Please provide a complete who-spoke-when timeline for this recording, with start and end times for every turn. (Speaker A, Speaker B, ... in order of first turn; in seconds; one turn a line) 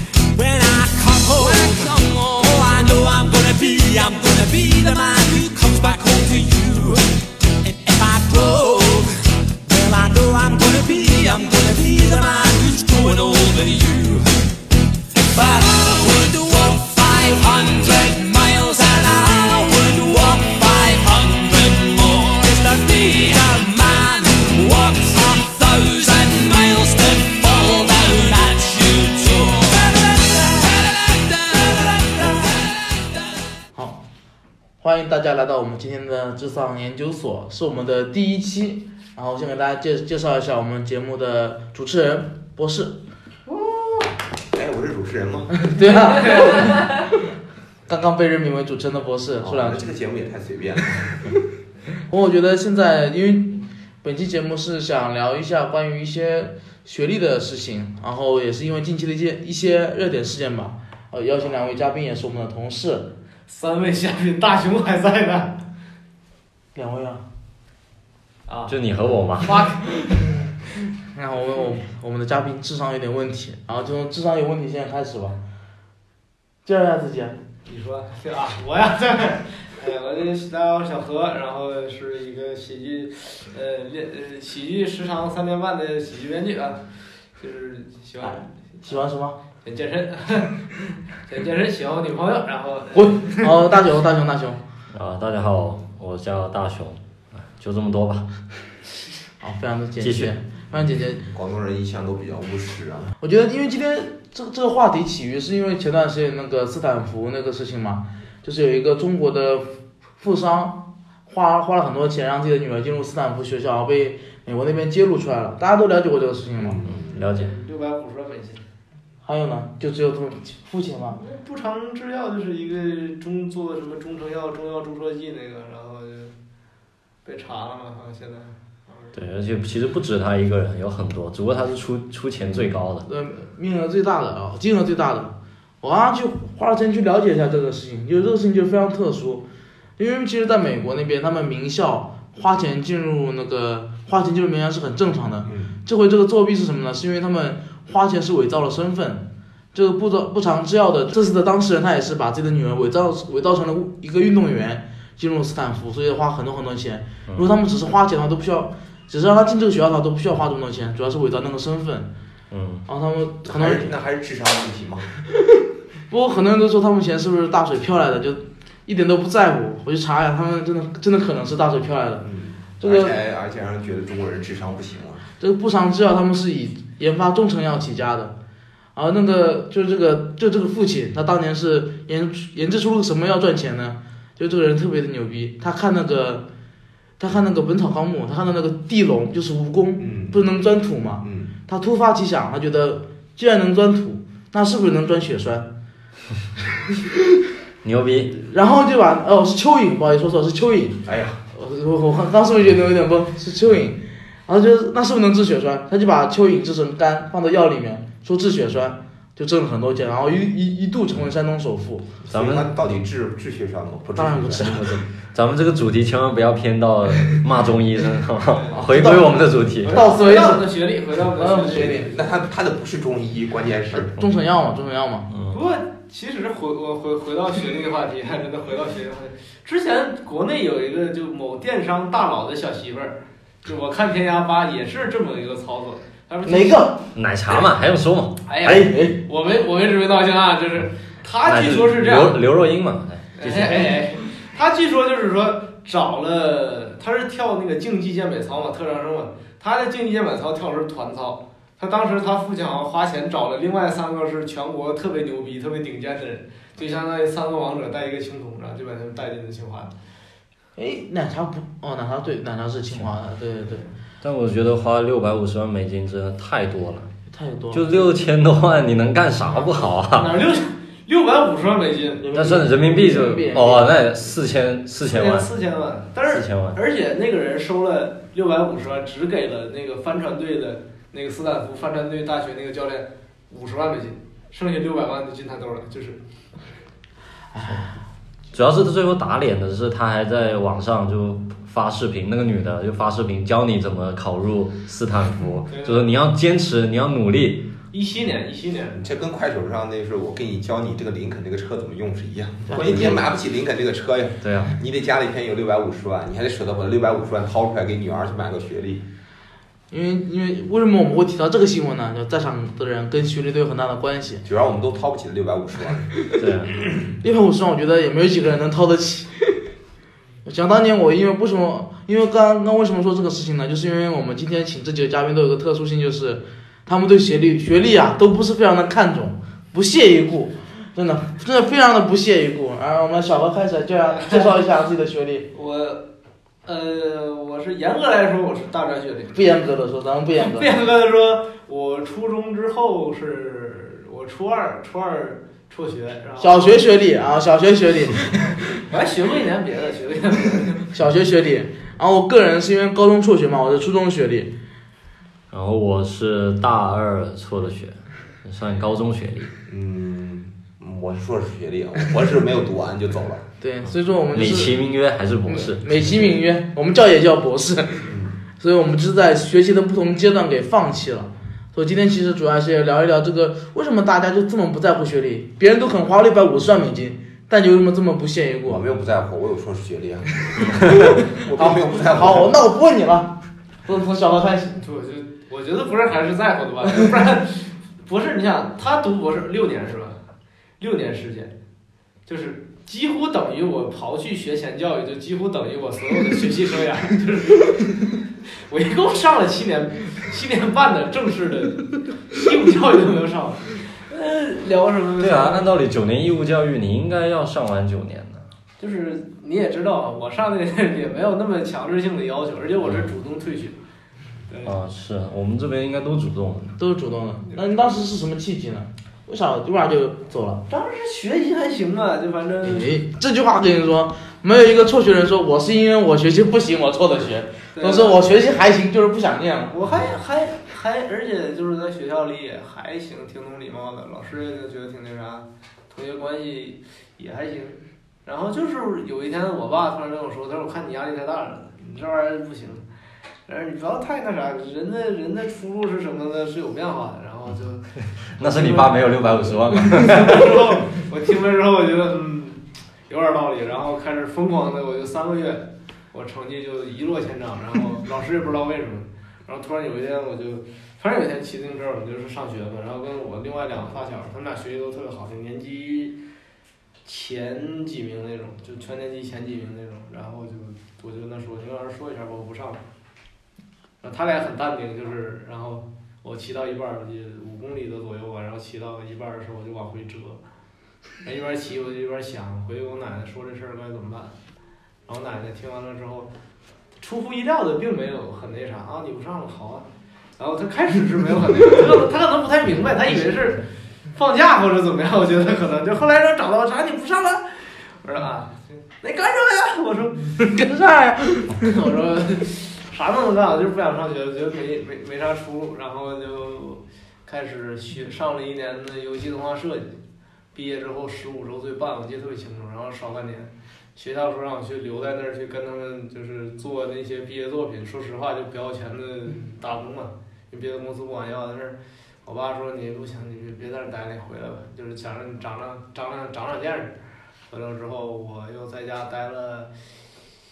Speaker A: 0.3-7.0
Speaker A: 7.6-14.3
Speaker A: 15.3-33.0
Speaker B: 33.8-34.0
Speaker B: 34.8-43.0
Speaker C: 43.5-44.0
Speaker C: 44.5-45.6
Speaker B: 45.6-47.2
Speaker D: 46.2-46.5
Speaker B: 47.9-49.9
Speaker C: 49.4-51.3
Speaker B: 52.1-63.1
Speaker D: 63.5-65.6
Speaker B: 66.8-67.2
Speaker D: 68.5-68.8
Speaker E: 68.7-69.6
Speaker D: 69.4-70.3
Speaker B: 71.2-75.4
Speaker B: 76.7-77.4
Speaker D: 77.7-86.8
Speaker D: 87.4-88.5
Speaker B: 88.2-89.4
Speaker D: 89.6-90.6
Speaker D: 91.2-93.5
Speaker B: 93.0-94.6
Speaker E: 94.9-98.3
Speaker B: 99.4-101.2
Speaker E: 100.0-100.3
Speaker C: 100.7-103.2
Speaker B: 103.2-109.7
Speaker B: 110.2-116.8
Speaker C: 116.6-117.2
Speaker E: 116.9-117.6
Speaker D: 117.3-118.6
Speaker B: 119.2-121.2
Speaker D: 121.2-126.3
Speaker D: 127.2-129.1
Speaker E: 129.1-133.1
Speaker B: 133.1-139.4
Speaker B: 140.0-162.1
Speaker C: 145.4-145.7
Speaker E: 162.5-162.8
Speaker B: 162.9-163.9
Speaker C: 163.4-165.1
Speaker B: 166.1-172.3
Speaker C: 172.2-175.3
Speaker B: 172.8-173.2
Speaker B: 175.4-178.3
Speaker B: 178.9-186.5
Speaker B: 187.2-195.7
Speaker C: 190.0-190.4
Speaker C: 191.2-191.5
Speaker E: 197.8-198.4
Speaker B: 198.4-212.1
Speaker C: 201.1-201.4
Speaker C: 212.2-214.8
Speaker E: 212.3-212.7
Speaker B: 214.2-214.9
Speaker E: 214.6-220.1
Speaker D: 218.5-218.8
Speaker B: 218.8-220.7
Speaker D: 219.8-222.3
Speaker B: 221.3-222.1
Speaker C: 221.8-224.1
Speaker B: 224.0-225.3
Speaker E: 225.3-225.6
Speaker D: 225.5-236.9
Speaker B: 236.4-237.0
Speaker E: 237.2-238.8
Speaker D: 238.5-242.4
Speaker B: 238.6-239.2
Speaker E: 241.4-244.0
Speaker D: 243.4-259.9
Speaker B: 260.8-263.9
Speaker E: 264.2-267.1
Speaker B: 267.3-268.1
Speaker E: 267.7-270.3
Speaker D: 269.4-272.4
Speaker B: 272.2-273.9
Speaker E: 272.3-275.5
Speaker D: 275.0-286.2
Speaker E: 276.3-276.8
Speaker B: 287.5-287.9
Speaker E: 288.5-297.6
Speaker D: 295.7-296.1
Speaker D: 297.9-299.1
Speaker C: 299.0-309.1
Speaker B: 302.7-303.2
Speaker E: 304.4-304.8
Speaker B: 309.9-314.4
Speaker C: 314.4-316.1
Speaker E: 316.4-316.8
Speaker B: 317.2-319.6
Speaker B: 320.5-335.5
Speaker D: 334.1-334.6
Speaker D: 335.5-336.0
Speaker D: 336.6-339.5
Speaker B: 339.3-340.7
Speaker D: 340.4-346.8
Speaker B: 346.4-348.7
Speaker D: 348.8-350.9
Speaker B: 350.9-354.5
Speaker E: 355.5-359.5
Speaker C: 359.7-363.4
Speaker B: 363.6-364.8
Speaker E: 364.3-366.1
Speaker B: 365.5-378.8
Speaker C: 368.1-368.4
Speaker C: 378.7-382.5
Speaker B: 380.9-384.8
Speaker D: 384.8-390.2
Speaker D: 390.8-391.5
Speaker D: 392.3-398.1
Speaker D: 398.7-405.7
Speaker E: 405.2-408.5
Speaker D: 408.8-413.8
Speaker D: 414.5-414.8
Speaker E: 414.6-416.8
Speaker B: 416.8-420.6
Speaker D: 420.7-422.9
Speaker B: 422.6-429.7
Speaker D: 427.8-428.3
Speaker D: 429.7-442.9
Speaker D: 443.5-466.2
Speaker E: 448.4-450.8
Speaker D: 467.1-472.8
Speaker D: 474.0-480.4
Speaker D: 481.2-484.3
Speaker D: 485.1-486.3
Speaker D: 487.0-489.9
Speaker D: 490.4-500.5
Speaker B: 500.4-501.7
Speaker D: 501.6-509.9
Speaker D: 510.5-527.0
Speaker D: 527.5-529.7